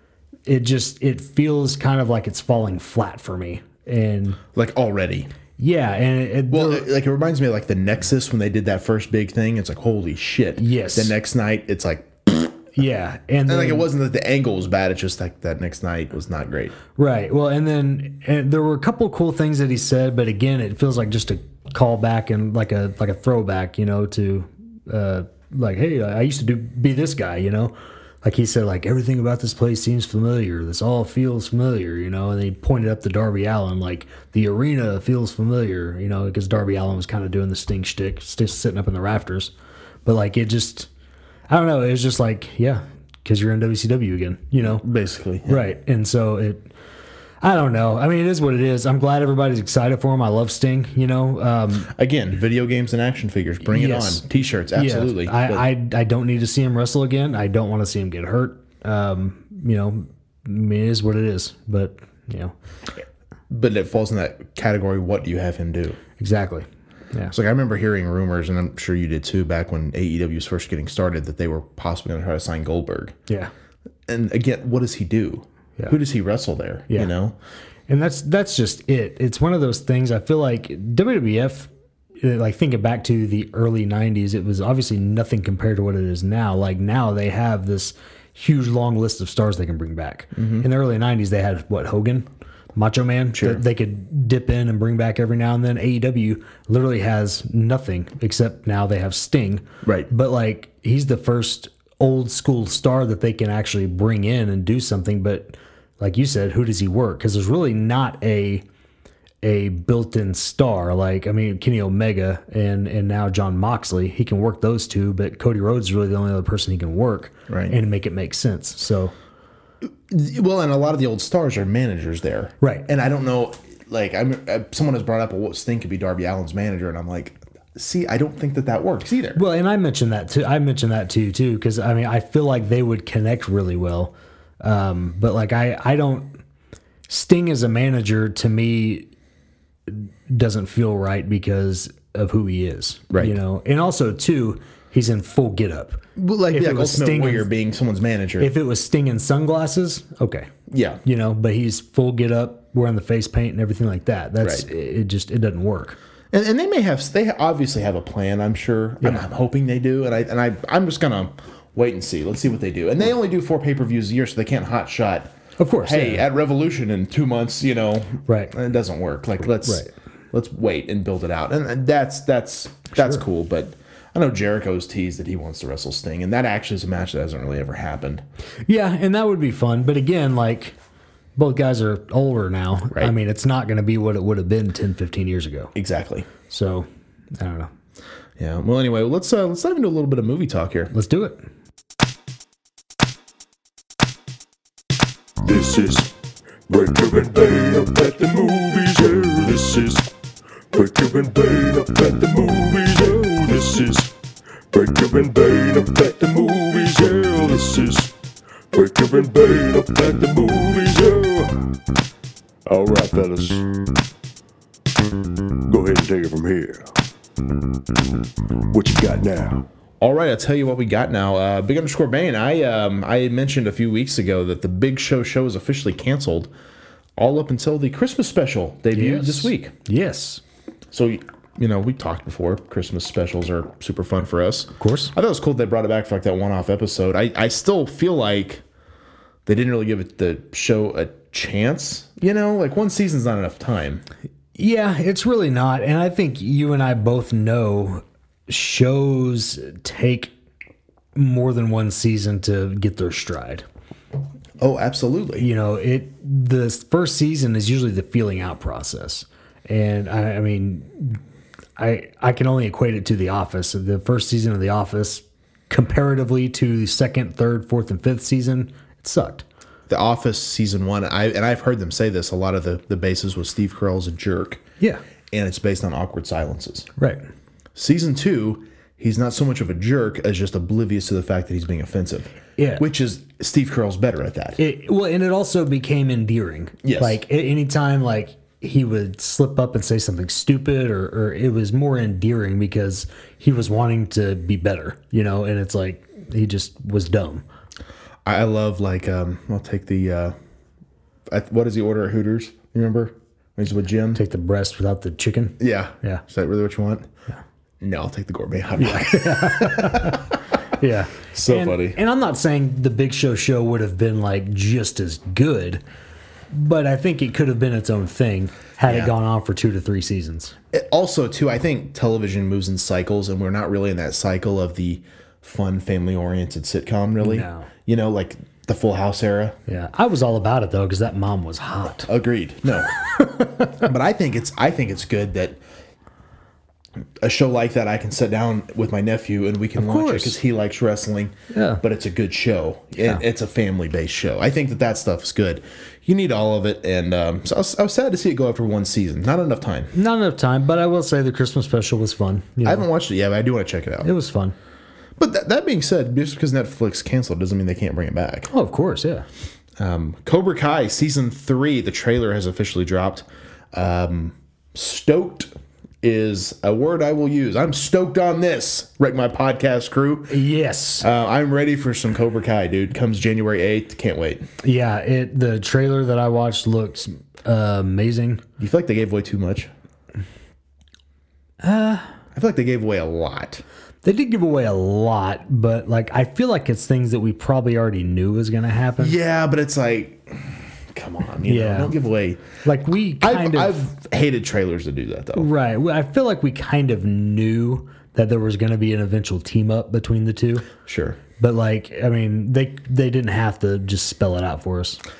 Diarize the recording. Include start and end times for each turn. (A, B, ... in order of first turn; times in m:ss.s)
0:00.4-0:04.4 A
0:04.5-0:05.3 B
0:05.6-0:06.9 A
0:06.5-0:12.8 B
0:10.6-0:11.1 A
0:12.8-0:13.9 A
0:13.5-0:16.8 B
0:17.0-0:39.5 A
0:40.0-0:40.9 A
0:41.5-0:44.8 A
0:44.6-0:45.7 B
0:45.4-0:46.7 A
0:47.4-0:51.9 A
0:51.9-0:55.6 B
0:53.6-1:02.5 A
1:03.5-1:06.0 B
1:06.2-1:07.3 A
1:07.3-1:13.1 B
1:14.1-1:17.4 B
1:17.9-1:21.7 A
1:22.2-1:48.6 A
1:30.3-1:30.7 B
1:33.3-1:33.6 B
1:39.8-1:40.1 B
1:49.4-1:59.1 A
1:57.5-1:57.8 B
2:00.1-2:09.4 B
2:02.6-2:02.9 A
2:09.3-2:16.4 A
2:17.1-2:19.1 A
2:19.9-2:27.5 A
2:23.1-2:23.4 B
2:26.2-2:28.5 B
2:28.4-2:30.5 A
2:30.7-2:31.0 B
2:31.0-2:36.0 A
2:34.4-2:34.6 B
2:36.3-2:58.2 B
2:45.6-2:46.2 A
2:48.3-2:48.5 A
2:49.6-2:49.9 A
2:52.9-2:53.2 A
2:58.7-3:00.7 A
3:01.4-3:05.7 A
3:05.7-3:06.3 B
3:06.5-3:07.7 A
3:08.4-3:10.9 B
3:10.9-3:11.4 A
3:15.4-3:16.1 C
3:16.7-3:20.1 C
3:20.7-3:24.1 C
3:24.7-3:28.1 C
3:28.7-3:31.5 C
3:32.7-3:33.6 C
3:35.7-3:36.9 C
3:38.7-3:39.6 C
3:40.0-3:46.5 B
3:47.2-3:49.7 B
3:48.9-3:50.4 A
3:50.9-3:58.6 B
3:54.8-3:55.1 A
3:59.4-4:04.0 B
4:04.6-4:10.3 A
4:11.1-4:13.6 A
4:14.6-4:15.5 B
4:15.4-4:21.2 A
4:21.8-4:29.4 A
4:29.9-4:34.6 B
4:35.3-4:36.9 B
4:37.7-4:44.6 B
4:42.6-4:42.8 A
4:44.6-4:57.4 A
4:46.8-4:47.2 B
4:58.2-5:00.3 B
5:01.3-5:04.2 B
5:04.1-5:06.2 A
5:05.6-5:07.1 B
5:07.8-5:10.4 B
5:08.8-5:15.8 A
5:11.3-5:12.0 B
5:16.5-5:20.5 A
5:18.8-5:19.1 B
5:20.7-5:29.6 B
5:27.2-5:27.7 A
5:29.7-5:32.1 A
5:32.1-5:32.9 B
5:33.2-5:33.8 A
5:33.7-5:35.6 B
5:37.2-5:49.9 B
5:39.8-5:40.4 A
5:41.5-5:41.8 A
5:43.0-5:43.2 A
5:49.9-5:52.8 A
5:52.6-5:54.1 B
5:54.0-5:54.5 A
5:55.2-5:58.5 B
5:58.5-5:59.2 A
5:59.8-6:05.5 B
6:06.0-6:10.4 B
6:10.3-6:11.1 A
6:11.0-6:14.4 B
6:14.6-6:18.4 A
6:18.6-6:19.7 B
6:21.6-6:22.1 A
6:22.3-6:23.6 B
6:24.0-6:29.2 A
6:29.0-6:32.5 B
6:31.4-6:32.0 A
6:32.6-6:33.9 A
6:33.2-6:35.5 B
6:35.3-6:40.7 A
6:40.8-6:41.2 B
6:41.4-6:45.0 A